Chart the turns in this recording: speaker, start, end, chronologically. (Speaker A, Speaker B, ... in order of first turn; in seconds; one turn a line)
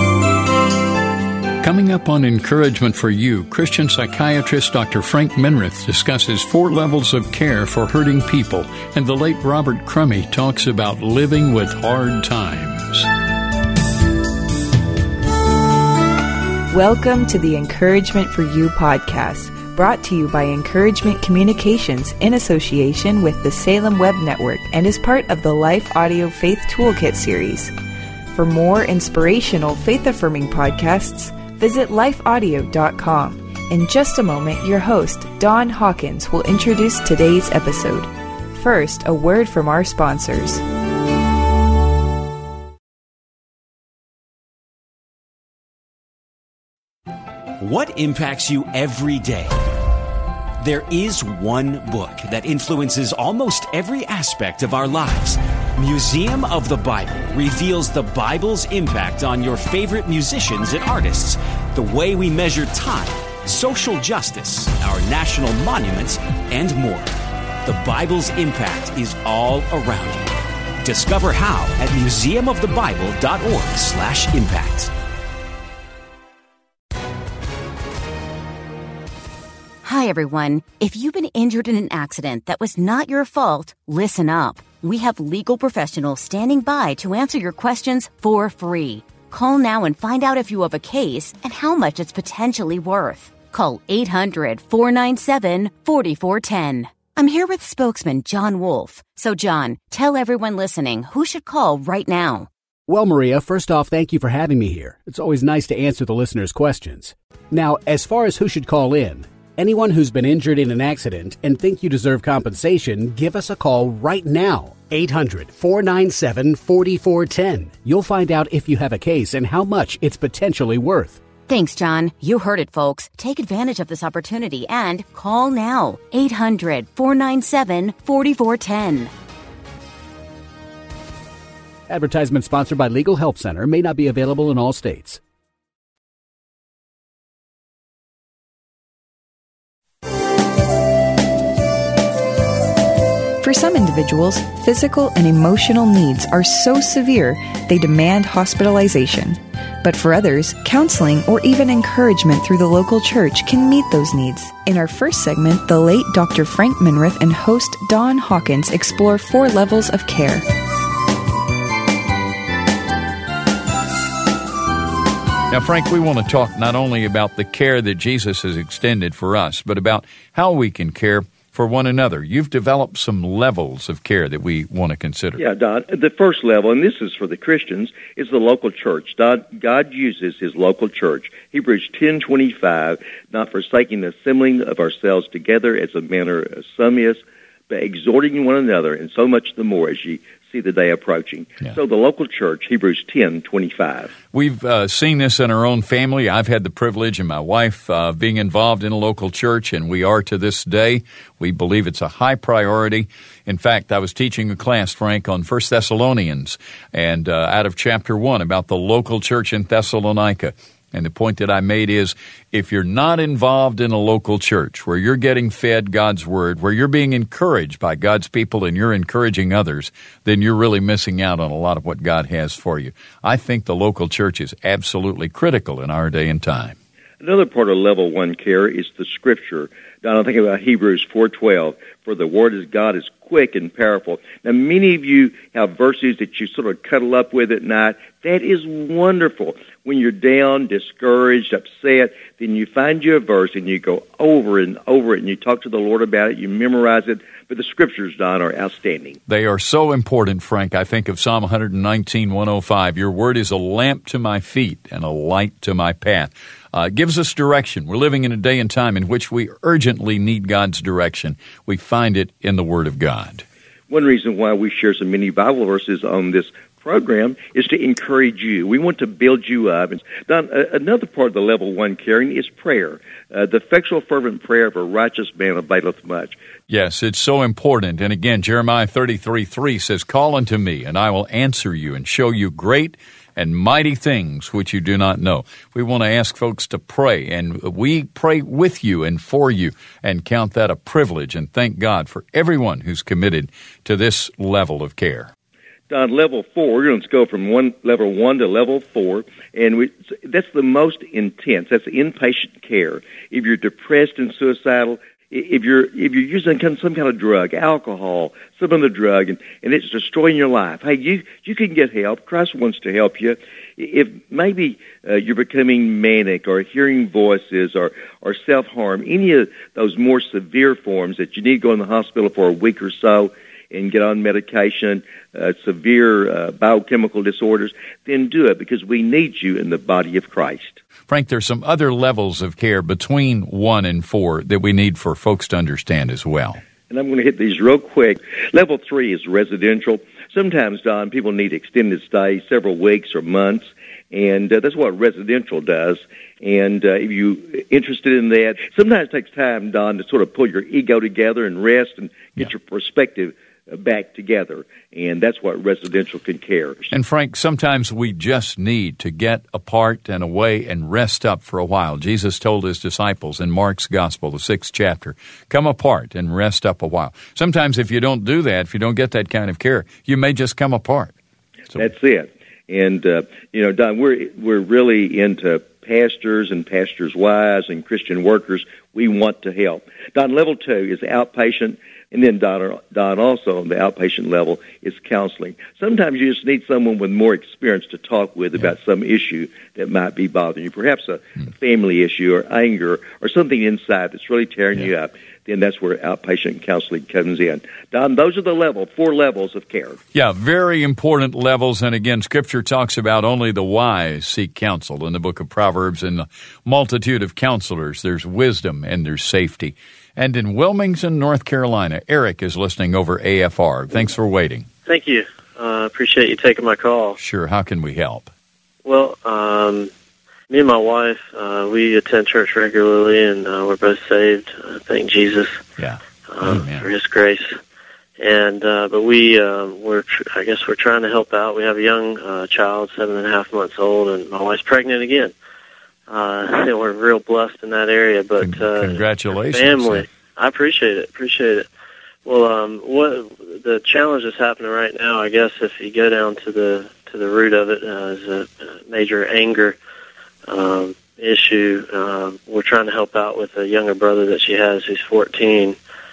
Speaker A: 1.6-13.1
Speaker B: 16.7-27.7
Speaker B: 28.3-40.6
Speaker C: 47.6-49.5
Speaker C: 50.6-67.1
Speaker C: 67.6-70.3
Speaker C: 70.8-74.9
Speaker D: 79.8-102.5
Speaker E: 102.9-121.2
Speaker D: 121.5-129.1
Speaker E: 131.9-135.2
Speaker B: 143.4-160.4
Speaker A: 165.5-175.4
Speaker F: 175.4-194.1
Speaker A: 194.3-226.8
Speaker F: 227.2-249.2
Speaker A: 249.3-263.4
Speaker F: 263.9-276.4
Speaker A: 276.7-295.3
Speaker F: 295.9-330.8
Speaker A: 331.1-336.6
Speaker F: 336.9-356.9
Speaker A: 356.9-371.1
Speaker F: 371.7-400.0
Speaker A: 400.1-414.7
Speaker G: 414.9-417.2
Speaker A: 417.2-418.3
Speaker G: 418.8-419.9
Speaker G: 420.5-425.6
Speaker A: 425.8-426.9
Speaker G: 426.3-427.6
Speaker G: 428.2-435.3
Speaker G: 436.1-441.7
Speaker A: 438.4-440.0
Speaker G: 442.2-449.8
Speaker G: 450.5-455.8